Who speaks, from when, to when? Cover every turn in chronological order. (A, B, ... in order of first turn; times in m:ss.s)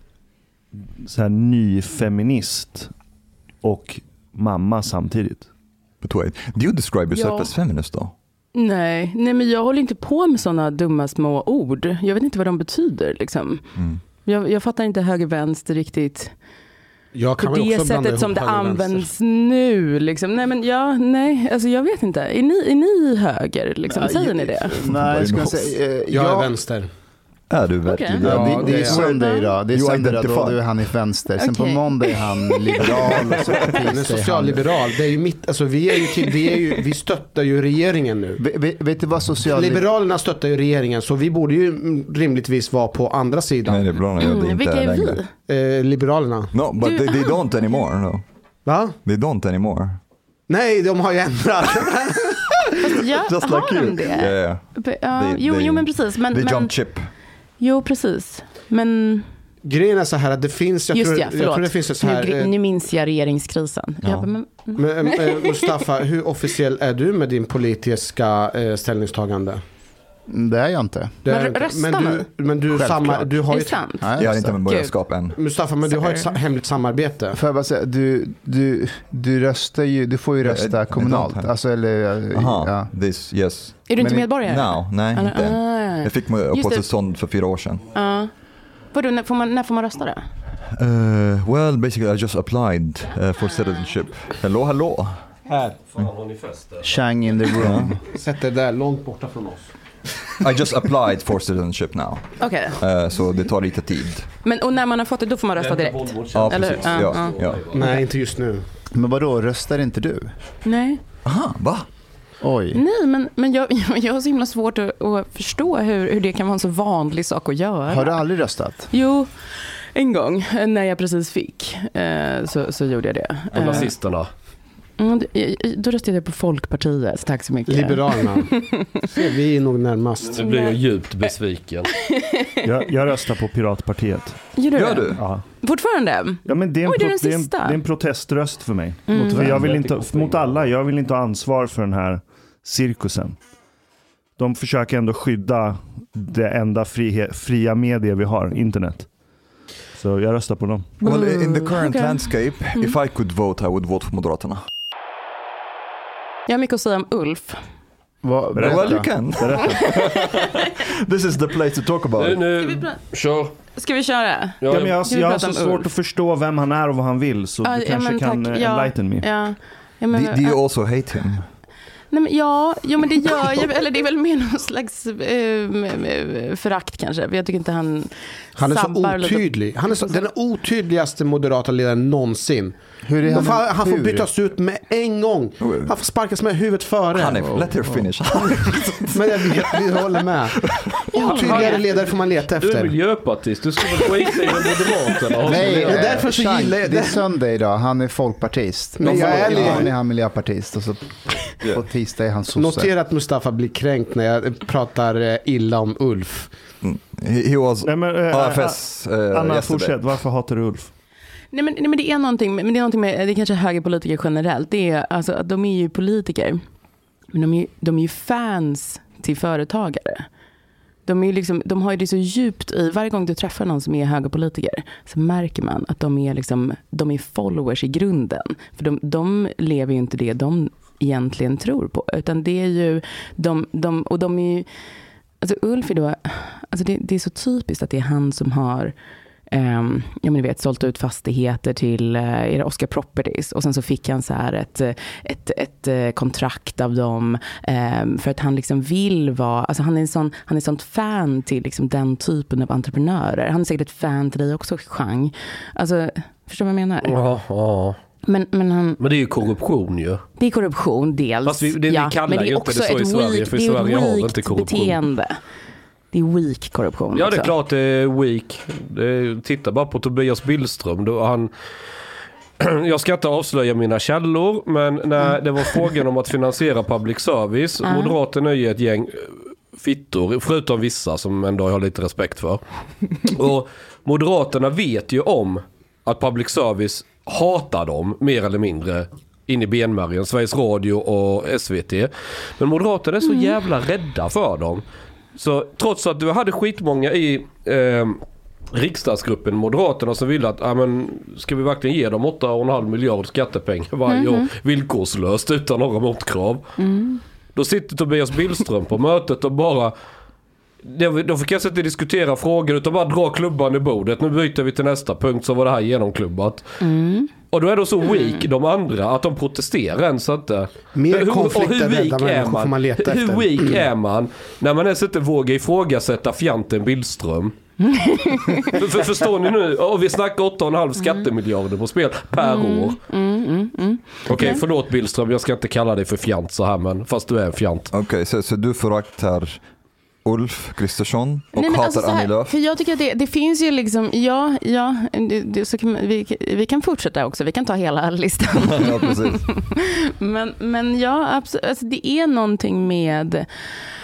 0:01.0-0:02.9 A
0:03.6-0:05.5 A
0:06.0-0:08.1 B
0:07.1-0:07.5 C
0:08.5-0:13.6 C
0:14.2-0:16.3 C
0:17.1-0:19.1 D
0:17.4-0:24.8 C
0:23.9-0:26.5 E
0:24.8-0:25.7 B
0:26.1-0:26.9 D
0:27.5-0:29.2 B
0:27.8-0:29.5 C
0:28.2-0:29.0 D
0:28.2-0:34.7 E
0:29.7-0:30.6 B
0:31.4-0:33.1 C
0:33.9-0:38.4 D
0:38.4-0:39.9 E
0:39.5-0:43.9 D
0:43.6-0:45.2 B
0:44.2-0:45.3 C
0:45.5-0:46.5 D
0:46.5-0:48.2 B
0:46.8-0:47.4 C
0:48.6-0:49.0 D
0:49.0-0:50.0 B
0:50.5-0:52.5 D
0:52.8-0:56.7 C
0:53.3-0:57.1 B
0:57.6-0:59.2 C
0:59.6-1:02.5 D
1:00.9-1:05.7 C
1:04.0-1:04.3 B
1:04.8-1:09.6 D
1:10.3-1:11.2 E
1:11.2-1:13.8 D
1:11.3-1:12.3 C
1:12.7-1:13.4 E
1:13.5-1:14.9 C
1:14.0-1:14.6 E
1:14.2-1:15.4 B
1:15.4-1:17.4 D
1:15.8-1:16.4 C
1:17.3-1:22.9 E
1:20.4-1:21.5 B
1:22.3-1:27.8 B
1:23.9-1:26.8 C
1:24.0-1:24.3 E
1:27.9-1:28.3 C
1:28.9-1:30.3 C
1:30.7-1:35.2 B
1:35.5-1:35.8 D
1:35.9-1:36.9 F
1:36.8-1:38.0 E
1:37.6-1:38.0 B
1:38.0-1:39.7 D
1:40.4-1:44.3 B
1:42.4-1:42.8 C
1:44.4-1:47.4 C
1:45.6-1:48.0 F
1:46.3-1:47.7 B
1:47.7-1:48.6 D
1:48.9-1:50.3 E
1:50.6-1:51.0 C
1:51.2-1:51.9 B
1:52.4-1:52.8 E
1:52.7-1:58.2 C
1:57.9-1:58.9 E
1:58.9-1:59.3 C
1:59.9-2:03.9 C
2:03.5-2:04.3 F
2:05.0-2:09.0 C
2:07.7-2:10.4 D
2:10.2-2:11.9 F
2:10.4-2:10.8 C
2:12.0-2:12.6 C
2:12.6-2:14.4 A
2:14.6-2:17.8 C
2:14.7-2:15.2 B
2:15.2-2:15.4 A
2:16.4-2:23.4 A
2:19.1-2:19.6 C
2:19.5-2:20.7 F
2:24.4-2:29.1 A
2:29.9-2:30.9 A
2:31.0-2:34.6 B
2:31.0-2:32.9 C
2:36.5-2:37.6 C
2:38.2-2:39.1 E
2:38.5-2:39.9 A
2:38.6-2:42.4 B
2:39.6-2:40.1 C
2:42.2-2:43.5 F
2:42.6-2:43.0 C
2:43.6-2:45.9 C
2:44.6-2:45.0 F
2:44.7-2:49.2 A
2:47.6-2:50.6 C
2:50.1-2:51.4 B
2:52.1-3:00.2 C
2:58.6-3:02.7 D
3:03.0-3:04.3 E
3:03.2-3:07.7 D
3:05.6-3:05.9 B
3:07.1-3:10.0 B
3:09.1-3:10.6 D
3:10.5-3:11.0 B
3:11.1-3:11.8 C
3:11.1-3:12.9 D
3:11.2-3:16.1 F
3:15.4-3:22.9 E
3:15.6-3:17.2 D
3:19.0-3:19.9 D
3:19.1-3:19.9 B
3:22.6-3:26.5 D
3:26.8-3:30.0 B
3:27.8-3:30.9 A
3:31.5-3:36.6 C
3:37.3-3:40.2 C
3:41.0-3:54.7 C
3:55.4-3:58.9 C
3:59.5-4:17.2 C
4:17.0-4:18.0 F
4:18.3-4:19.0 C
4:19.0-4:20.2 F
4:20.4-4:25.4 C
4:21.4-4:25.0 F
4:26.1-4:27.5 C
4:27.1-4:31.5 F
4:32.6-4:42.6 F
4:37.8-4:38.2 C
4:43.2-4:54.8 F
4:53.2-4:53.5 C
4:55.3-5:06.7 F
5:04.1-5:04.5 C
5:06.8-5:07.2 C
5:07.5-5:09.9 F
5:10.8-5:16.6 F
5:16.8-5:17.3 C
5:17.5-5:27.6 F
5:20.9-5:23.8 D
5:27.8-5:28.8 C
5:28.6-5:33.0 F
5:32.4-5:34.6 C
5:34.3-5:37.9 F
5:34.3-5:34.6 B
5:37.9-5:39.6 B
5:40.2-5:42.5 B
5:41.5-5:53.5 C
5:48.5-5:49.5 B